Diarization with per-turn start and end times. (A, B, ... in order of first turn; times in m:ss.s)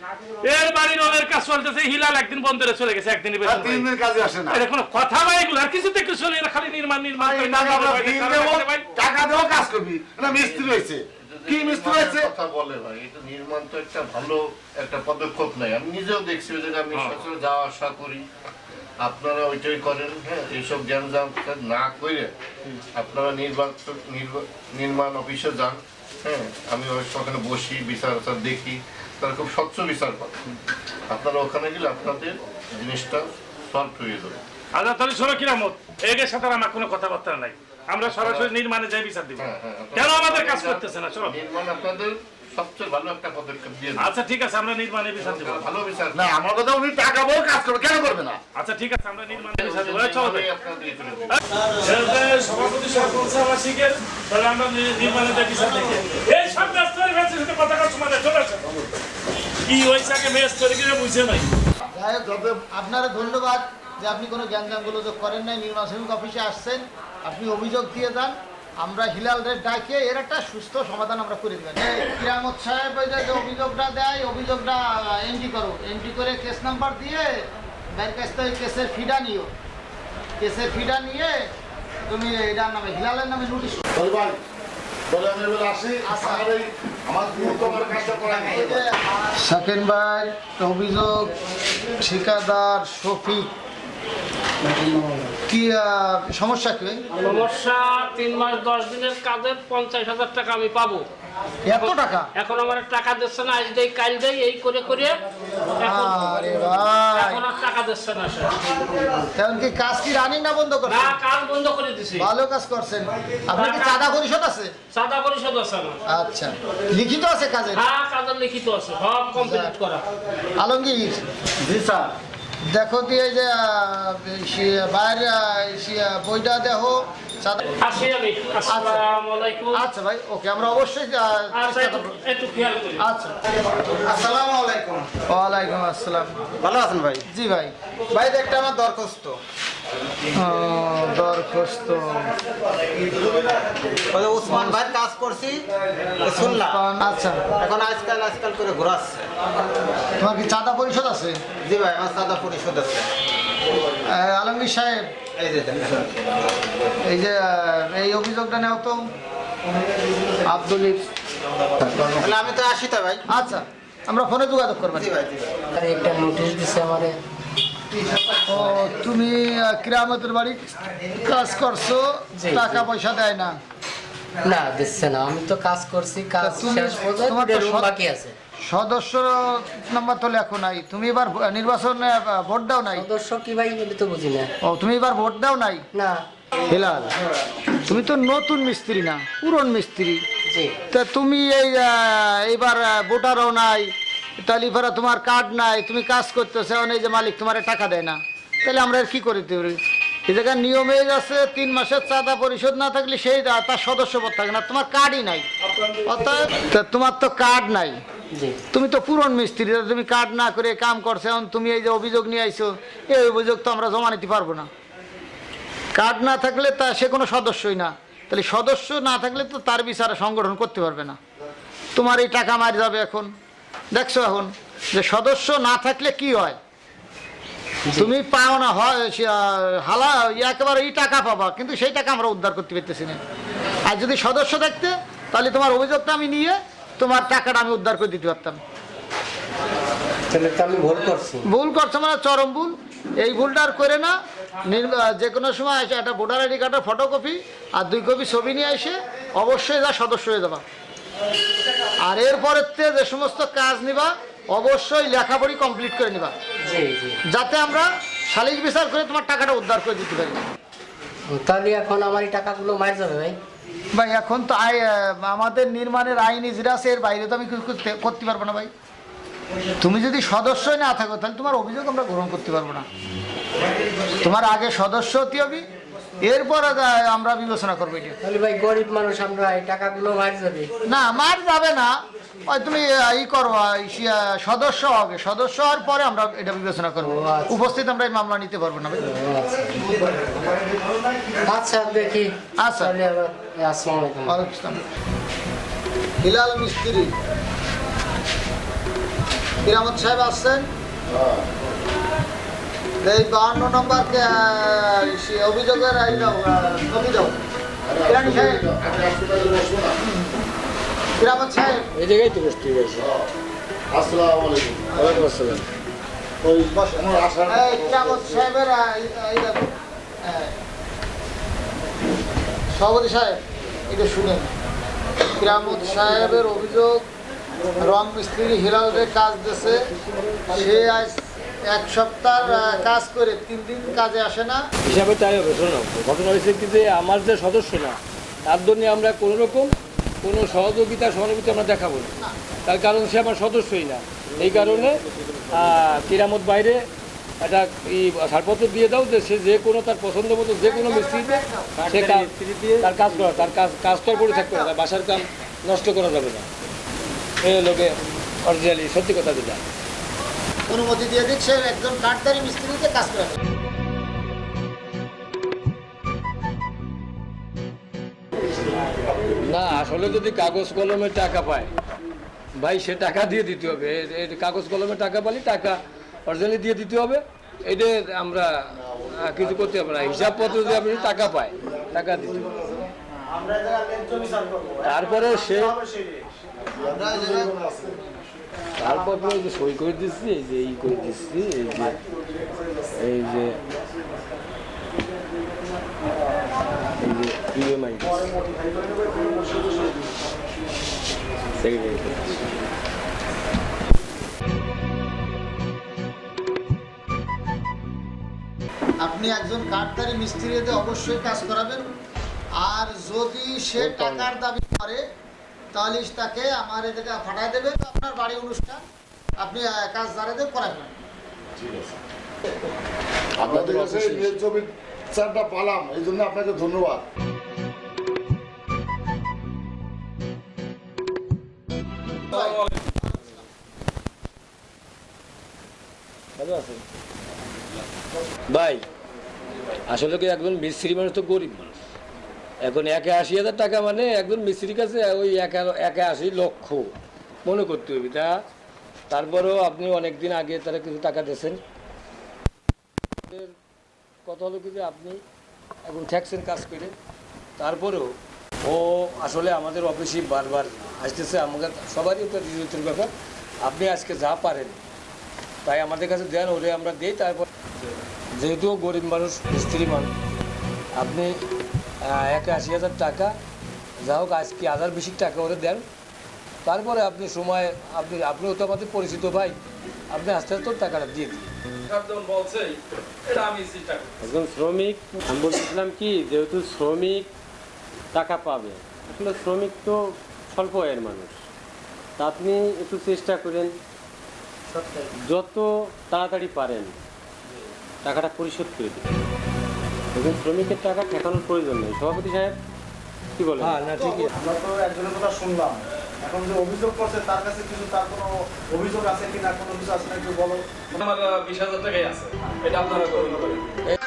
0:00.4-0:03.9 A
0:03.4-0:04.6 B
0:04.5-0:08.8 A
0:07.2-0:12.3 B
0:10.2-0:18.2 C
0:16.9-0:17.2 A
0:19.0-0:22.3 C
0:23.0-0:30.4 C
0:31.1-0:34.4 C
0:34.7-0:41.4 A
0:38.0-0:38.5 C
0:39.4-0:44.1 C
0:44.0-0:45.6 A
0:45.2-0:46.3 C
0:46.1-0:48.4 B
0:48.5-0:50.5 A
0:49.3-0:51.4 C
0:51.3-0:58.6 A
0:59.6-1:01.5 A
1:01.9-1:19.5 D
1:02.2-1:02.5 B
1:20.4-1:21.5 D
1:22.1-1:23.8 D
1:23.9-1:24.4 B
1:25.1-1:28.9 B
1:26.0-1:26.5 D
1:28.4-1:31.4 D
1:32.0-1:33.5 D
1:35.5-1:37.0 D
1:37.2-1:41.0 E
1:41.6-1:42.3 D
1:41.7-1:45.1 E
1:45.8-1:46.2 E
1:45.8-1:47.4 D
1:47.1-1:48.7 E
1:49.3-1:51.2 D
1:50.9-1:52.3 E
1:52.2-1:54.7 D
1:53.5-1:54.1 E
1:54.9-1:56.0 E
1:56.1-1:57.8 D
1:57.8-2:00.0 E
1:59.4-1:59.7 D
2:00.6-2:01.2 D
2:01.6-2:02.1 F
2:02.6-2:07.6 D
2:07.7-2:09.8 E
2:08.7-2:09.0 D
2:09.7-2:12.1 D
2:11.5-2:13.0 E
2:13.0-2:13.4 D
2:13.8-2:15.1 G
2:15.3-2:16.4 D
2:16.6-2:17.2 G
2:17.3-2:17.7 D
2:18.1-2:19.3 G
2:20.4-2:22.4 D
2:24.0-2:25.6 G
2:24.4-2:24.9 D
2:26.2-2:26.8 G
2:26.3-2:27.5 D
2:27.6-2:29.3 G
2:30.2-2:31.4 D
2:31.6-2:33.1 G
2:34.0-2:35.1 D
2:35.4-2:36.3 G
2:37.0-2:39.0 D
2:40.4-2:41.1 D
2:42.1-2:43.2 G
2:43.3-2:45.1 D
2:44.9-2:45.7 G
2:45.8-2:47.2 H
2:48.4-2:53.6 D
2:52.4-2:52.8 H
2:54.4-2:58.3 H
2:56.4-2:57.9 D
2:58.6-3:03.1 D
3:02.9-3:04.5 H
3:04.6-3:05.8 D
3:05.9-3:06.2 H
3:06.7-3:07.1 D
3:07.9-3:10.2 D
3:10.5-3:10.8 H
3:10.9-3:25.5 D
3:26.0-3:28.0 D
3:28.3-3:28.6 H
3:28.7-3:34.7 D
3:35.9-3:41.2 D
3:41.9-3:43.3 D
3:43.9-3:46.6 D
3:48.0-3:53.2 D
3:53.8-3:58.6 D
4:00.3-4:01.4 H
4:01.4-4:10.6 D
4:12.0-4:16.3 D
4:16.6-4:17.2 H
4:17.3-4:20.4 D
4:21.3-4:23.4 H
4:23.9-4:28.7 D
4:29.8-4:32.9 D
4:34.2-4:35.7 D
4:36.2-4:38.2 D
4:38.2-4:40.7 H
4:40.9-4:49.0 D
4:47.0-4:47.6 H
4:49.0-4:50.6 H
4:51.4-4:54.4 H
4:52.6-4:53.0 D
4:54.2-4:54.8 D
4:56.2-4:57.1 D
4:59.6-5:00.7 D
5:01.1-5:01.5 B
5:03.0-5:07.4 D
5:07.8-5:10.0 B
5:08.1-5:08.7 D
5:11.2-5:11.9 D
5:11.9-5:13.1 I
5:12.9-5:13.3 B
5:13.9-5:15.3 B
5:14.9-5:15.2 D
5:15.0-5:15.6 I
5:16.4-5:18.5 B
5:16.7-5:20.5 D
5:22.7-5:24.5 D
5:25.4-5:27.0 D
5:27.8-5:29.8 D
5:30.5-5:34.6 D
5:34.8-5:39.7 I
5:40.2-5:46.8 I
5:47.4-5:56.5 I
5:50.6-5:51.7 D
5:51.8-5:53.5 J
5:54.0-5:54.7 D
5:57.4-5:59.6 I
6:00.7-6:03.4 D
6:09.4-6:11.7 I
6:12.6-6:22.5 I
6:18.7-6:20.7 B
6:21.5-6:22.9 B
6:23.4-6:24.8 F
6:24.8-6:25.8 I
6:25.5-6:26.1 F
6:26.7-6:28.1 B
6:26.8-6:27.5 D
6:28.8-6:32.0 I
6:32.9-6:33.6 I
6:37.0-6:38.3 I
6:41.6-6:42.6 I
6:49.0-6:51.9 D
6:52.6-6:55.0 D
6:53.9-6:54.2 I
6:55.7-6:58.8 D
6:59.4-7:01.0 D
7:01.5-7:02.0 B
7:03.4-7:07.0 B
7:03.4-7:04.4 I
7:12.3-7:13.3 D
7:12.3-7:12.9 K
7:16.4-7:16.8 I
7:18.5-7:18.8 I
7:19.9-7:21.8 I
7:22.6-7:26.9 I
7:27.4-7:28.4 I
7:29.1-7:31.6 I
7:33.3-7:33.5 I
7:34.2-7:35.2 I
7:35.9-7:36.9 I
7:37.6-7:38.1 I
7:38.6-7:43.1 I
7:43.6-7:44.8 I
7:45.6-7:47.4 I
7:48.4-7:50.1 I
7:51.0-7:51.3 I
7:52.0-7:53.3 I
7:54.0-7:55.8 I
7:56.6-7:59.6 I
8:00.1-8:01.5 I
8:01.9-8:04.1 K
8:04.2-8:07.3 J
8:08.1-8:11.4 J
8:12.2-8:13.7 J
8:14.8-8:15.0 H
8:15.2-8:17.0 J
8:18.0-8:19.2 J
8:20.1-8:22.6 J
8:23.4-8:24.0 J
8:23.6-8:24.3 I
8:24.4-8:25.8 F
8:28.8-8:30.5 F
8:30.9-8:33.6 K